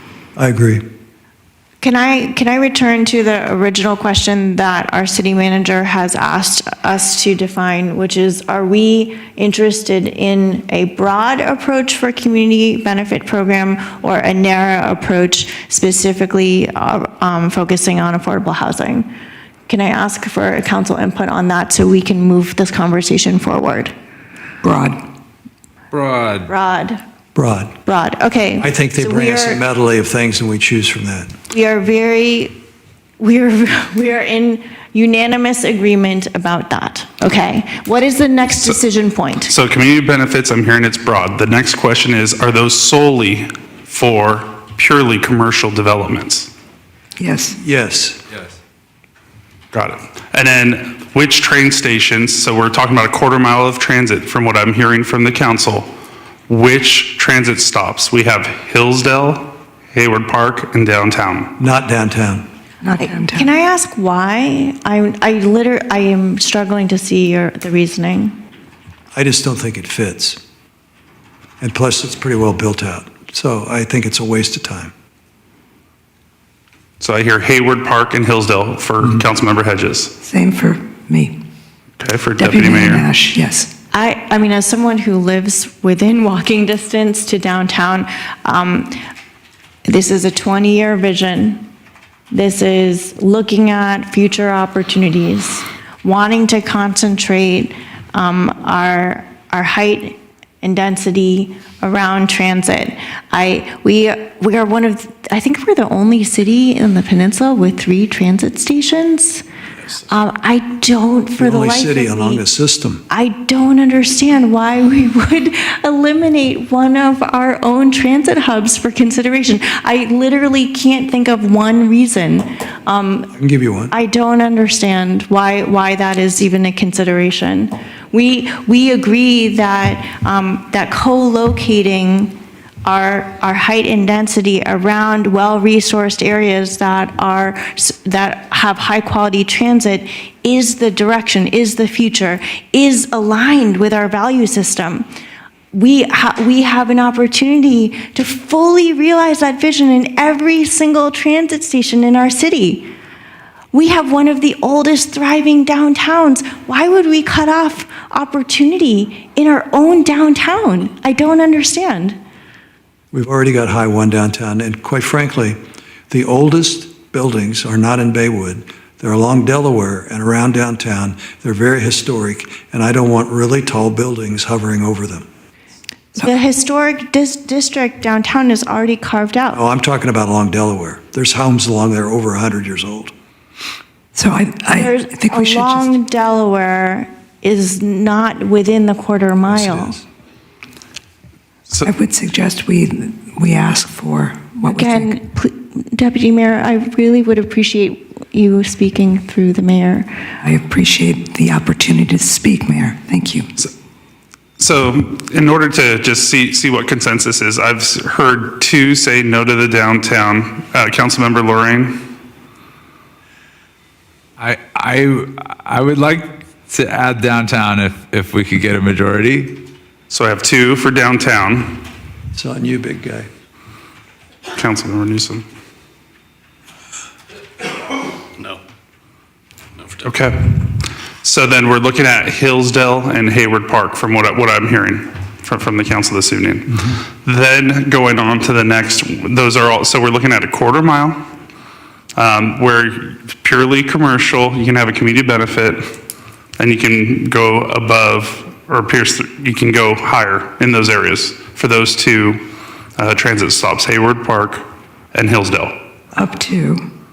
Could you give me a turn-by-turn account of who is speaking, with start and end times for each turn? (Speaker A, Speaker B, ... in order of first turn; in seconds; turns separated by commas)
Speaker A: 0.4-0.8, Speaker B: 1.8-19.1, Speaker B: 19.7-23.9, Speaker C: 24.6-25.0, Speaker D: 25.9-26.5, Speaker B: 26.5-27.0, Speaker A: 27.4-27.8, Speaker B: 27.8-29.6, Speaker A: 28.6-31.3, Speaker B: 31.5-32.5, Speaker B: 33.2-39.5, Speaker E: 39.5-46.5, Speaker C: 47.2-47.6, Speaker A: 47.6-48.2, Speaker E: 49.7-55.9, Speaker E: 56.5-61.5, Speaker A: 61.6-62.5, Speaker C: 62.8-63.5, Speaker B: 63.3-68.4, Speaker A: 69.1-70.4, Speaker A: 71.6-74.9, Speaker E: 77.0-80.1, Speaker C: 80.2-81.4, Speaker E: 82.0-83.1, Speaker C: 82.4-83.7, Speaker B: 83.9-89.0, Speaker B: 89.9-91.7, Speaker B: 92.3-109.4, Speaker B: 110.1-112.4, Speaker A: 111.4-113.0, Speaker B: 113.1-123.3, Speaker A: 123.3-123.9, Speaker B: 123.9-145.1, Speaker B: 145.7-152.9, Speaker B: 153.7-162.2, Speaker A: 163.1-165.6, Speaker A: 166.1-175.3, Speaker B: 176.2-179.6, Speaker A: 179.5-183.1, Speaker C: 184.2-185.9, Speaker B: 184.7-190.0, Speaker A: 189.5-190.0, Speaker C: 191.8-195.2, Speaker B: 194.7-200.1, Speaker C: 200.4-203.5, Speaker E: 204.6-212.1, Speaker D: 214.4-219.7, Speaker E: 220.1-221.8, Speaker A: 222.3-223.3, Speaker E: 224.5-225.4, Speaker E: 230.0-241.2, Speaker E: 242.2-246.0, Speaker E: 246.6-252.4, Speaker E: 253.0-255.8, Speaker C: 256.1-256.8